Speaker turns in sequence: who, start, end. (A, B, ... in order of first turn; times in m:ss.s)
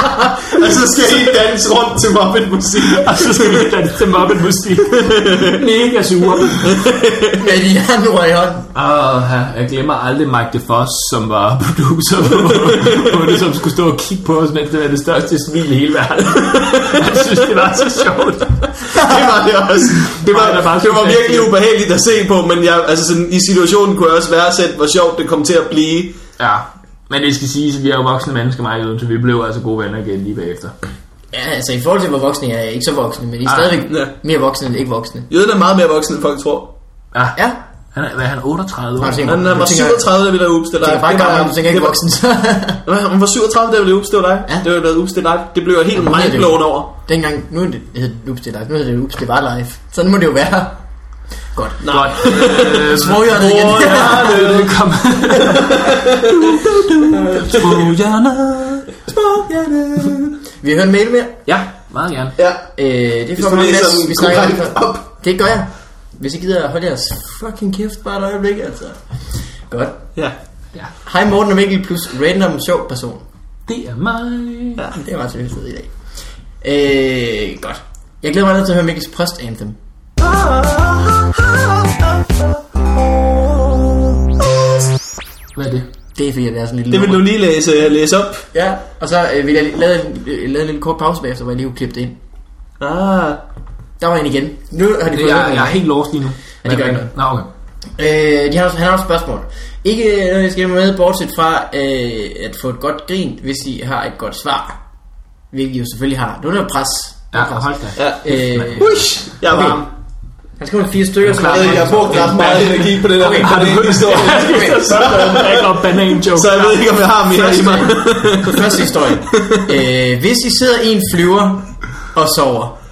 0:00.3-0:03.7 A
0:02.8-0:07.0 B
0:04.9-0:05.6 A
0:06.6-0:07.4 A
0:07.3-0:08.7 C
0:08.8-0:18.9 B
0:16.5-0:17.0 A
0:18.8-0:26.2 A
0:19.9-0:21.5 B
0:26.4-0:30.8 B
0:31.3-0:35.3 C
0:33.4-0:33.8 B
0:35.3-0:36.7 A
0:37.1-0:37.4 B
0:37.4-0:37.6 C
0:37.9-0:39.6 B
0:39.0-0:40.1 C
0:39.2-0:42.0 A
0:40.8-0:42.8 C
0:42.8-0:46.9 A
0:46.0-0:50.8 C
0:51.6-0:54.4 C
0:51.8-0:54.8 A
0:51.9-0:58.9 B
0:55.4-0:56.5 A
0:57.1-0:57.7 C
0:59.1-1:01.4 C
1:01.5-1:02.4 B
1:02.4-1:02.7 A
1:02.8-1:09.0 C
1:03.4-1:05.0 A
1:09.7-1:10.1 C
1:11.0-1:13.2 C
1:13.7-1:14.9 B
1:14.9-1:15.9 C
1:16.6-1:19.8 C
1:20.2-1:22.0 A
1:25.6-1:25.9 B
1:26.2-1:27.3 C
1:26.9-1:28.5 A
1:28.5-1:32.2 C
1:32.8-1:33.4 A
1:34.0-1:35.9 C
1:35.1-1:37.5 B
1:36.6-1:37.1 C
1:38.0-1:44.8 C
1:45.5-1:49.0 C
1:47.3-1:49.8 B
1:48.0-1:48.2 A
1:48.8-1:49.9 A
1:50.6-1:55.2 C
1:51.2-1:56.9 B
1:51.4-1:59.6 A
1:57.3-2:02.8 C